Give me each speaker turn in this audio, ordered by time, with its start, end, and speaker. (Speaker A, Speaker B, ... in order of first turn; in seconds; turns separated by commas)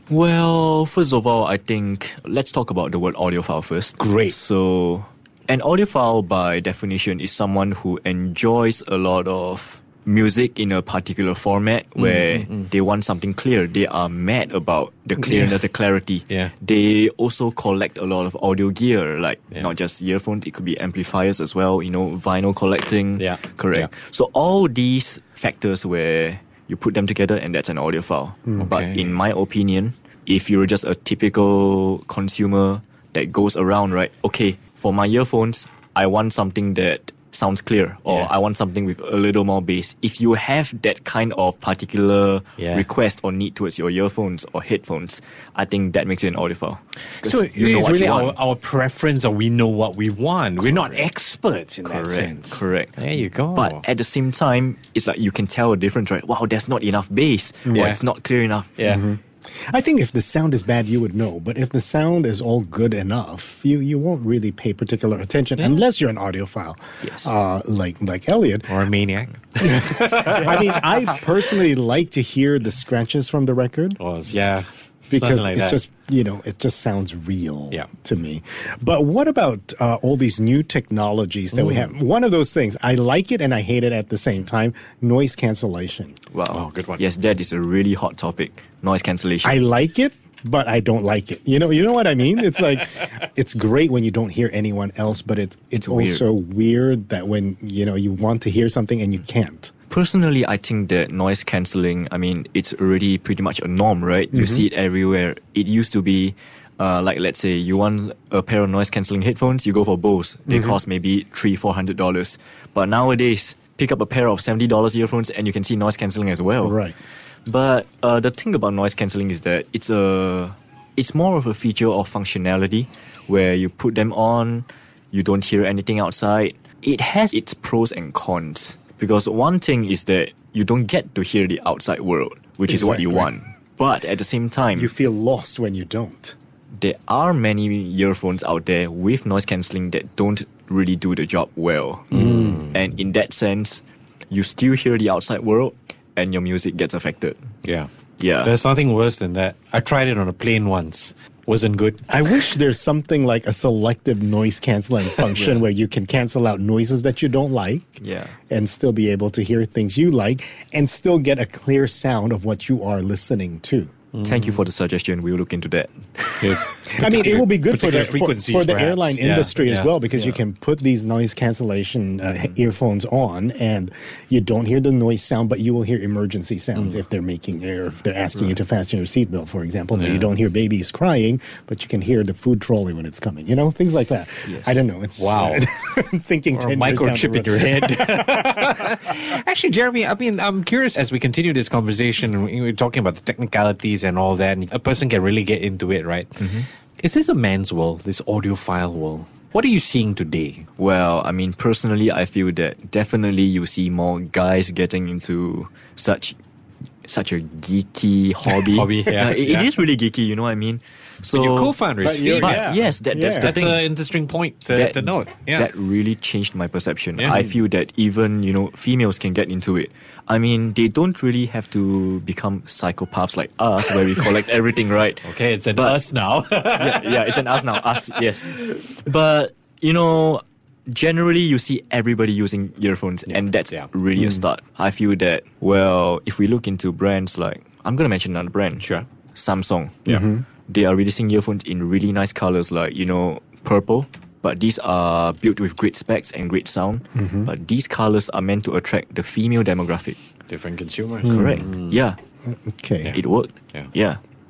Speaker A: 0.1-48.4, Speaker B: 4.0-4.3, Speaker B: 12.0-12.6, Speaker B: 15.2-15.5, Speaker B: 23.2-23.9, Speaker B: 28.6-29.1, Speaker B: 42.6-42.9, Speaker B: 47.2-53.8, Speaker A: 50.6-51.0, Speaker A: 51.8-53.0, Speaker A: 53.5-58.9, Speaker C: 57.7-57.9, Speaker B: 57.7-58.0, Speaker B: 58.8-59.0, Speaker C: 58.9-59.2, Speaker C: 59.7-68.7, Speaker A: 67.0-67.3, Speaker B: 68.7-71.1, Speaker C: 69.6-74.0, Speaker B: 74.0-75.8, Speaker C: 75.1-86.2, Speaker B: 81.5-81.9, Speaker A: 86.3-89.6, Speaker B: 86.5-87.0, Speaker C: 89.4-99.7, Speaker A: 95.8-96.2, Speaker A: 99.9-116.8, Speaker C: 104.3-104.6, Speaker C: 110.5-110.8, Speaker C: 116.6-116.9, Speaker A: 117.5-134.9, Speaker C: 132.7-133.3, Speaker C: 134.7-136.3, Speaker A: 136.7-147.4, Speaker B: 142.1-142.7, Speaker B: 147.6-147.9, Speaker A: 148.2-148.5, Speaker B: 148.4-152.1, Speaker C: 152.1-157.9, Speaker A: 155.3-155.6, Speaker A: 158.0-158.4, Speaker C: 158.5-163.9, Speaker B: 164.1-164.4, Speaker A: 164.2-166.4, Speaker B: 166.4-170.4, Speaker C: 166.9-189.0, Speaker B: 179.9-180.3, Speaker A: 184.4-184.8, Speaker B: 185.2-185.7, Speaker B: 186.5-196.5, Speaker A: 196.4-196.7, Speaker B: 197.0-200.7, Speaker A: 200.8-206.4, Speaker A: 207.1-213.9, Speaker B: 208.7-209.7, Speaker B: 211.3-212.6, Speaker C: 212.0-213.7, Speaker B: 213.3-215.7, Speaker A: 214.7-226.0, Speaker B: 217.2-217.5, Speaker B: 225.2-227.9, Speaker A: 226.7-250.2, Speaker B: 233.3-233.9, Speaker B: 238.8-239.1, Speaker C: 240.1-240.4, Speaker C: 247.2-247.5, Speaker B: 250.5-251.9, Speaker C: 251.2-251.7, Speaker A: 251.2-252.2, Speaker C: 252.5-253.1, Speaker A: 253.1-254.2